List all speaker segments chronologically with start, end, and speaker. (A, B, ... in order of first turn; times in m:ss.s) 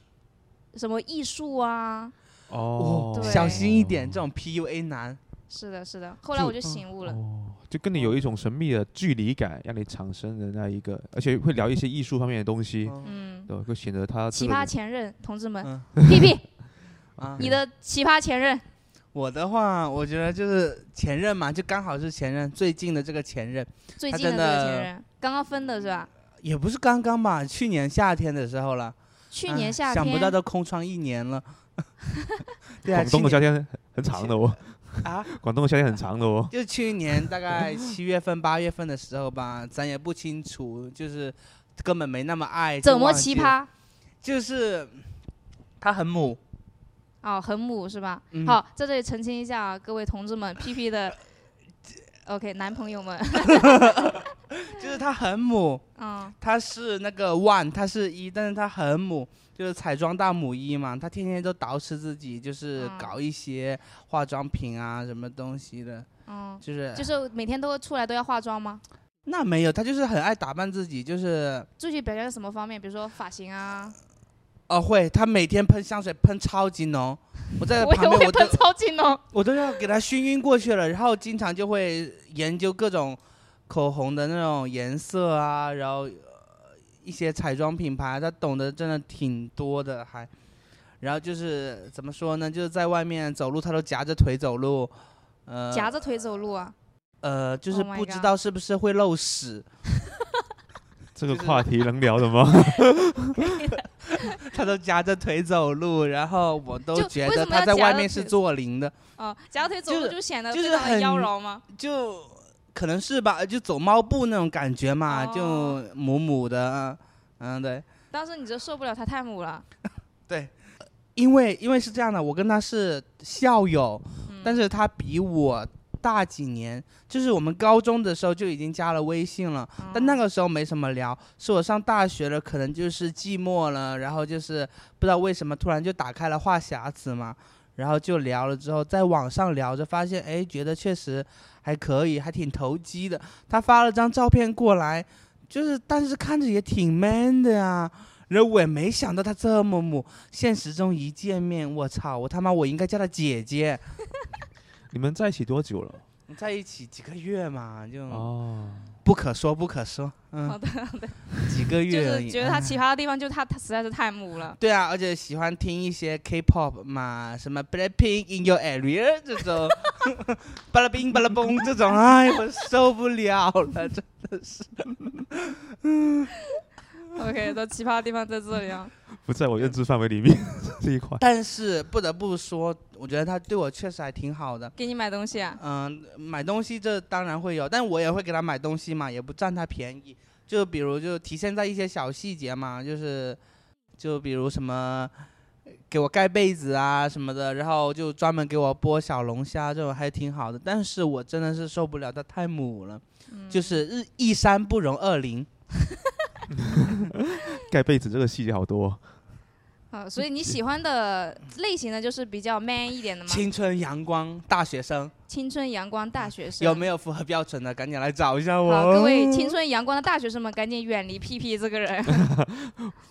0:00.7-0:02.1 A
0:02.5-0:04.2 B
0:02.8-0:05.2 C
0:03.1-0:03.6 A
0:05.5-0:07.2 A
0:06.4-0:13.0 B
0:07.9-0:08.2 C
0:12.8-0:13.1 C
0:13.0-0:13.5 A
0:13.5-0:14.7 B
0:14.3-0:16.5 A
0:15.6-0:15.9 C
0:16.0-0:16.3 B
0:17.2-0:17.4 C
0:17.2-0:17.6 B
0:17.4-0:18.6 A
0:19.1-0:24.9 C
0:24.0-0:26.1 A
0:26.4-0:28.9 C
0:29.3-0:30.3 A
0:29.5-0:31.4 C
0:32.8-0:33.4 C
0:32.9-0:36.5 B
0:34.1-0:34.4 C
0:35.0-0:35.3 C
0:36.5-0:43.5 C
0:37.3-0:37.6 B
0:42.8-0:43.7 A
0:44.2-0:45.1 C
0:45.8-0:46.4 C
0:47.2-0:51.2 A
0:48.3-0:48.6 C
0:52.2-0:54.3 A
0:53.5-0:55.8 C
0:56.0-0:56.4 A
0:56.4-1:06.1 C
1:02.8-1:03.1 A
1:06.3-1:08.8 A
1:06.6-1:07.1 C
1:09.2-1:11.7 C
1:11.8-1:14.0 A
1:14.7-1:18.6 C
1:17.7-1:19.2 A
1:19.3-1:26.4 C
1:27.0-1:30.3 C
1:31.0-1:34.9 C
1:35.5-1:36.3 C
1:35.7-1:36.7 A
1:37.2-1:39.6 C
1:37.7-1:38.3 A
1:41.1-1:43.6 B
1:41.3-1:41.7 C
1:43.4-1:44.4 A
1:44.0-1:48.9 C
1:46.9-1:48.3 A
1:49.2-1:51.6 A
1:49.9-1:57.8 C
1:55.1-1:55.8 A
1:58.1-1:59.6 A
2:00.3-2:00.5 C
2:01.2-2:33.8 C
2:04.2-2:04.6 A
2:09.8-2:10.2 A
2:34.9-2:36.0 B
2:36.3-2:38.3 C
2:38.1-2:39.0 B
2:39.0-2:40.6 C
2:40.4-2:44.6 A
2:41.4-2:42.8 C
2:44.6-2:56.3 C
2:57.1-2:58.9 A
2:59.2-3:01.2 B
3:01.2-3:04.7 C
3:04.8-3:05.6 A
3:05.6-3:13.4 C
3:14.0-3:15.1 C
3:15.9-3:25.5 C
3:23.3-3:23.8 A
3:26.5-3:29.0 B
3:29.9-3:33.4 A
3:33.2-3:35.1 C
3:35.3-3:36.9 A
3:36.6-3:39.6 C
3:38.6-3:42.3 A
3:42.1-3:42.9 B